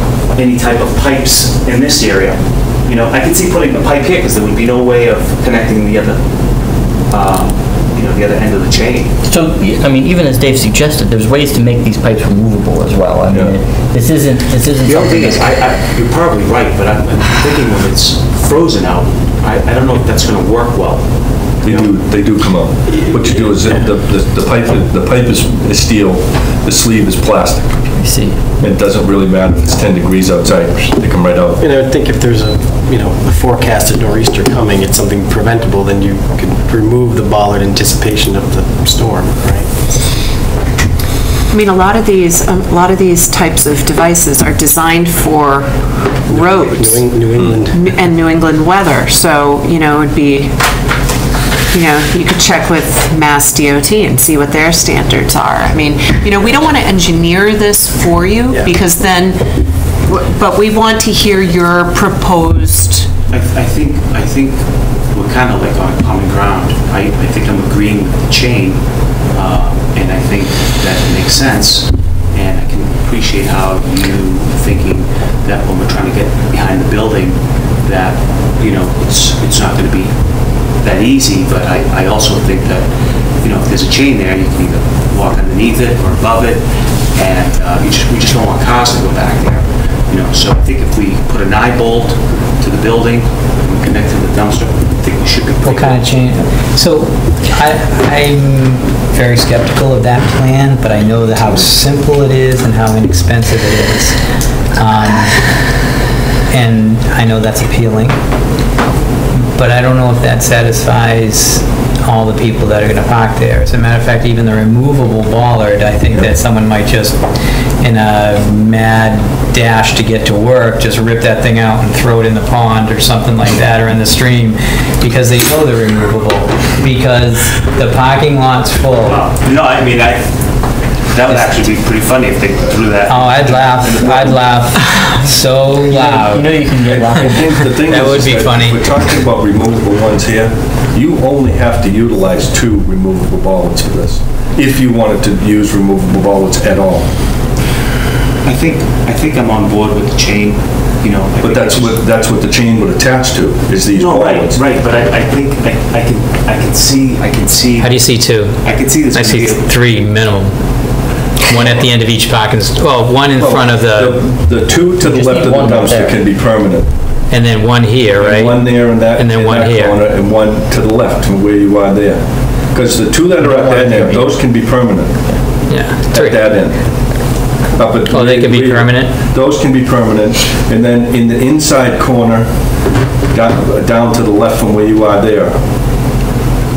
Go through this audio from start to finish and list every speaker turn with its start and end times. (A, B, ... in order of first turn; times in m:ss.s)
0:00.3-0:09.2 A
0:09.2-0:15.5 B
0:13.3-0:13.6 C
0:14.8-0:21.6 A
0:21.6-0:31.6 C
0:21.6-0:21.9 D
0:22.9-0:23.8 D
0:28.0-0:28.4 B
0:31.6-0:39.8 D
0:41.5-0:51.0 E
0:46.3-0:47.8 D
0:51.7-1:03.1 E
1:03.3-1:22.9 A
1:23.4-1:36.1 A
1:35.6-1:45.8 F
1:46.5-1:48.4 F
1:49.5-1:57.2 F
1:57.8-2:09.2 F
2:09.0-2:15.0 A
2:13.1-2:16.7 F
2:15.9-2:17.6 B
2:16.8-2:27.1 C
2:17.4-2:19.0 F
2:28.4-2:32.0 A
2:31.4-2:34.6 C
2:33.9-2:40.1 A
2:37.8-2:44.7 F
2:43.4-2:46.9 C
2:44.9-2:46.3 B
2:47.3-2:50.0 F
2:48.2-3:06.0 C
2:53.4-2:55.5 B
2:55.7-2:56.6 F
2:58.1-2:59.2 F